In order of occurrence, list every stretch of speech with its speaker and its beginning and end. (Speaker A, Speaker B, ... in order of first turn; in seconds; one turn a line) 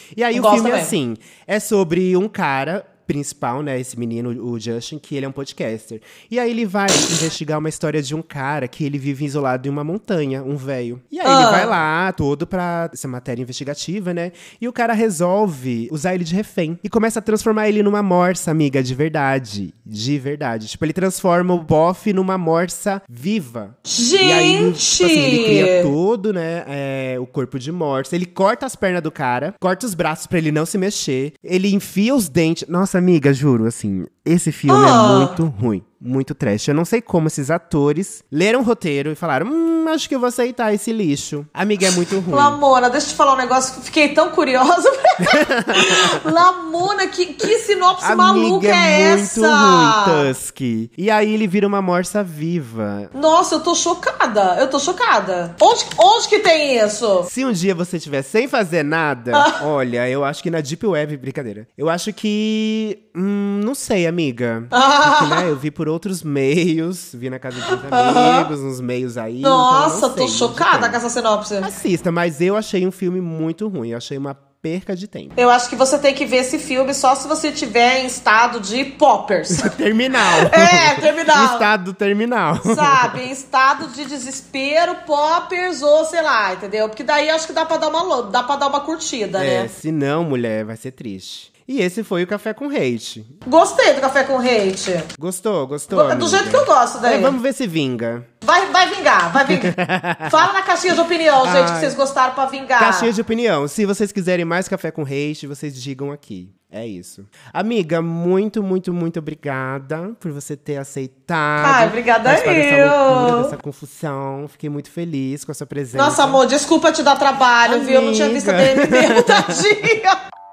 Speaker A: 0.1-42.6
Speaker B: 0.3-0.9
Speaker B: 11.2-11.8
Speaker B: 23.9-25.9
Speaker B: 34.7-35.4
Speaker B: 42.3-50.3
Speaker A: 45.2-46.3
Speaker A: 48.0-53.1
Speaker B: 53.1-57.3
Speaker A: 57.3-71.0
Speaker B: 59.3-59.6
Speaker B: 64.7-65.5
Speaker B: 67.7-68.5
Speaker B: 69.4-71.7
Speaker A: 71.6-75.4
Speaker B: 75.4-81.7
Speaker A: 79.5-83.2
Speaker B: 82.6-89.7
Speaker A: 89.3-93.3
Speaker B: 93.5-95.1
Speaker A: 95.2-98.3
Speaker B: 95.9-97.3
Speaker B: 98.4-99.7
Speaker A: 99.4-100.5
Speaker B: 100.2-103.1
Speaker A: 101.4-102.0
Speaker A: 102.8-116.4
Speaker B: 111.6-113.5
Speaker B: 115.9-120.2
Speaker A: 117.6-119.7